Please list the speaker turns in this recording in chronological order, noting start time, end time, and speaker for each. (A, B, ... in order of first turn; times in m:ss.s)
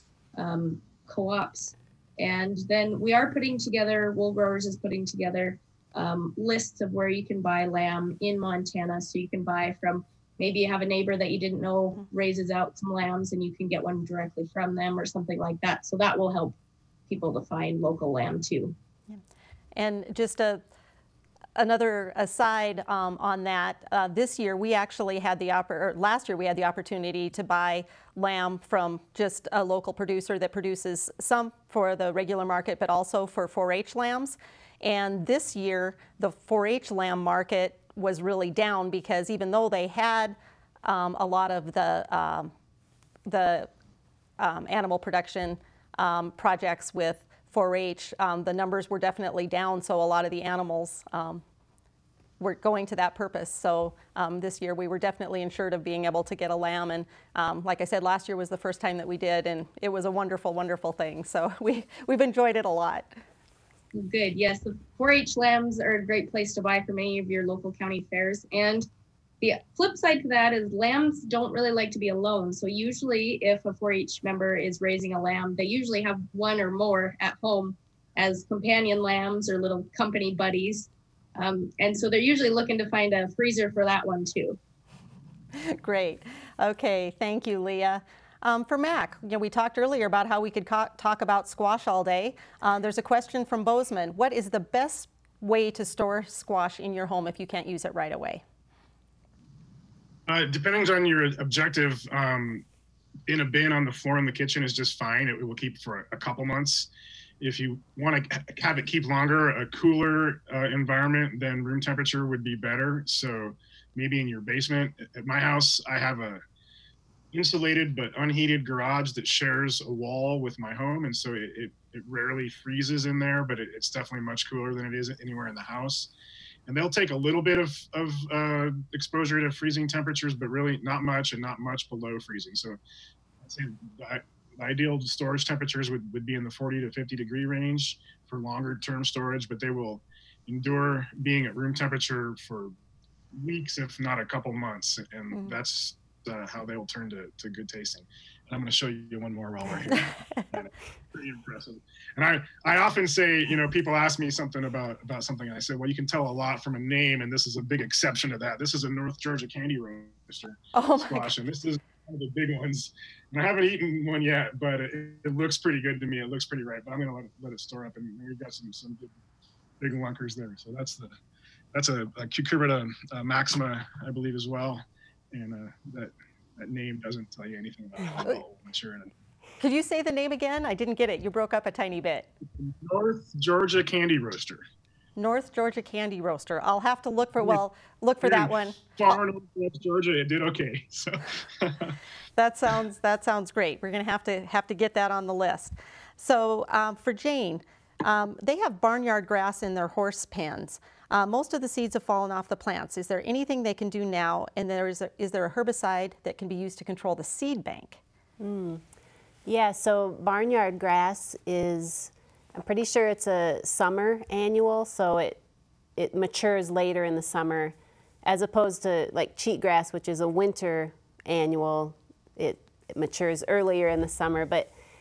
0:00.4-0:16.6 A
0:17.1-0:18.8 A
0:19.8-0:20.6 B
0:21.6-0:42.5 B
0:43.2-0:43.7 B
0:44.4-0:51.4 B
0:52.4-1:03.1 B
1:03.9-1:08.9 A
1:09.4-1:24.6 A
1:25.6-1:38.4 B
1:40.3-1:42.6 C
1:43.3-1:46.9 C
1:47.4-1:56.4 C
1:57.3-2:06.1 C
2:06.7-2:12.8 C
2:13.4-2:22.7 C
2:23.4-2:49.1 C
2:40.8-2:41.3 B
2:49.8-2:51.1 C
2:51.7-2:59.1 C
2:59.6-3:02.3 B
3:02.6-3:04.6 C
3:05.2-3:09.1 B
3:08.2-3:12.0 C
3:12.4-3:28.0 B
3:28.4-3:28.8 D
3:29.5-3:35.4 D
3:36.0-3:44.7 D